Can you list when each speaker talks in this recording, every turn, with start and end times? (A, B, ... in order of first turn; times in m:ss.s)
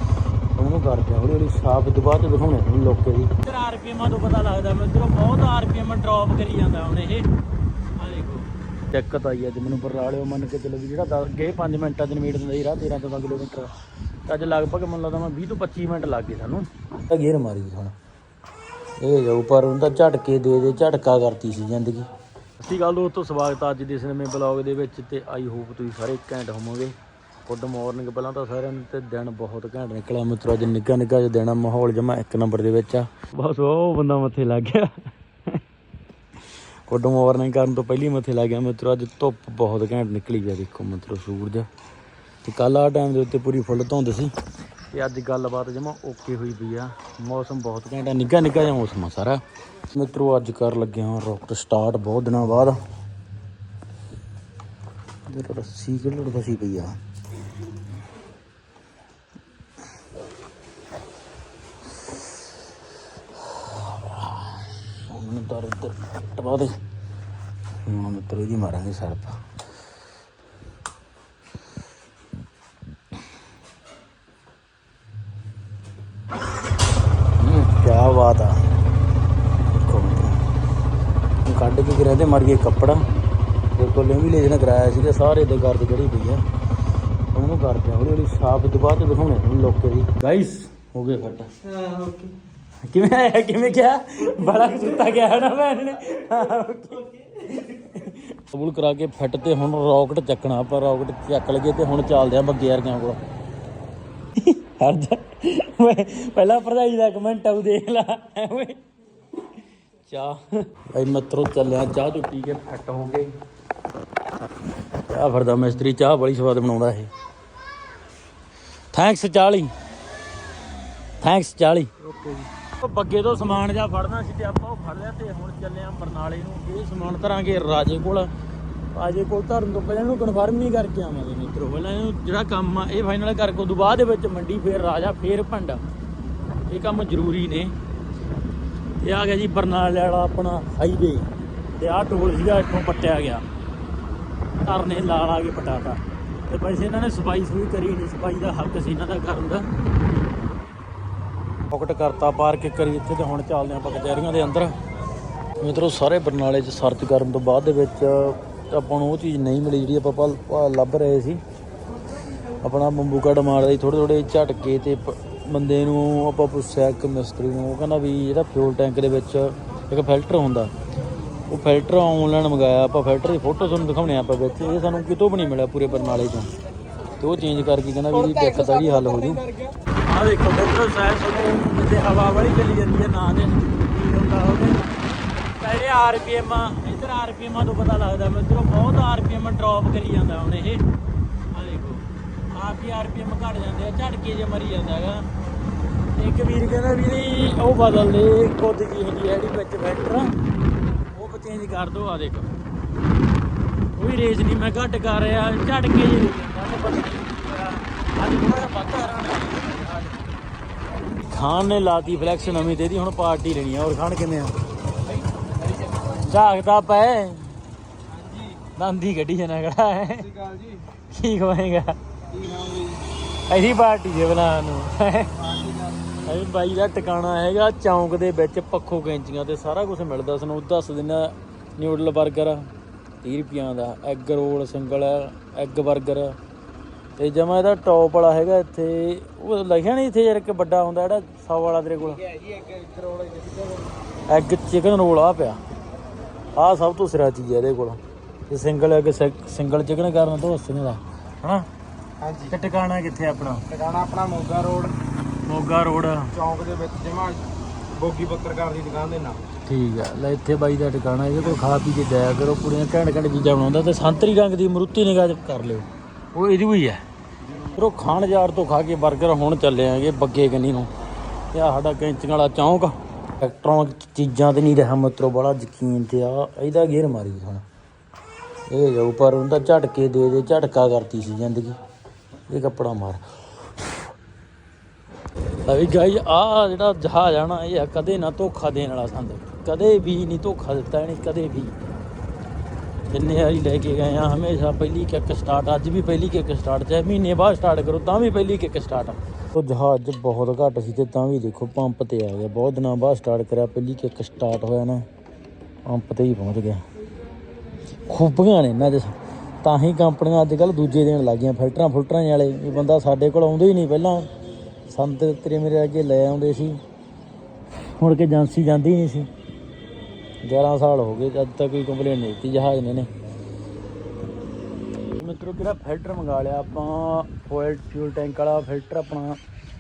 0:00.6-0:07.3 A
0:08.0-0:13.7 A
0:14.3-0:18.0 A
0:19.0-0:22.1 A
0:22.6-0:35.6 A
0:36.9-0:41.7 A
0:42.4-0:44.3 A
0:44.9-0:52.8 A
0:55.3-0:57.0 A
1:03.4-1:06.8 A
1:07.8-1:09.4 A
1:17.4-1:18.6 A
1:19.7-1:20.5 A
1:21.4-1:23.0 A
1:23.7-1:26.4 A
1:27.3-1:31.5 A
1:31.8-1:32.3 B
1:32.8-1:43.2 A
1:44.4-1:48.8 A
1:50.1-1:53.3 A
1:55.0-1:57.1 A
1:58.9-1:59.7 A
2:01.2-2:08.3 A
2:08.9-2:15.8 A
2:16.7-2:17.8 A
2:19.0-2:23.4 A
2:24.6-2:29.7 A
2:31.7-2:34.8 A
2:35.6-2:41.4 A
2:42.6-2:50.7 A
2:51.5-2:56.5 A
2:57.2-2:59.5 A
3:00.0-3:05.0 A
3:05.6-3:10.8 A
3:11.5-3:15.2 A
3:16.2-3:20.3 A
3:21.1-3:22.5 A
3:24.0-3:30.2 A
3:31.2-3:34.6 A
3:36.0-3:37.6 A
3:38.2-3:38.6 B
3:38.6-3:42.0 A
3:40.3-3:40.8 B
3:42.3-3:43.1 B
3:43.3-3:45.5 A
3:45.4-3:46.2 B
3:46.2-3:52.7 A
3:53.2-3:56.4 A
3:57.2-4:02.3 A
4:02.3-4:03.9 B
4:04.3-4:05.6 A
4:06.6-4:11.7 A
4:12.2-4:12.5 B
4:12.4-4:13.7 A
4:13.7-4:15.0 B
4:15.4-4:16.4 A
4:16.4-4:19.4 B
4:19.6-4:27.0 A
4:27.6-4:30.9 A
4:31.5-4:37.6 A
4:38.7-4:41.8 A
4:42.5-4:43.4 A
4:45.6-4:51.8 A
4:53.1-5:05.1 A
5:05.8-5:06.8 A
5:08.1-5:14.3 A
5:14.9-5:16.8 A
5:18.0-5:19.3 A
5:20.4-5:23.1 A
5:25.2-5:29.4 A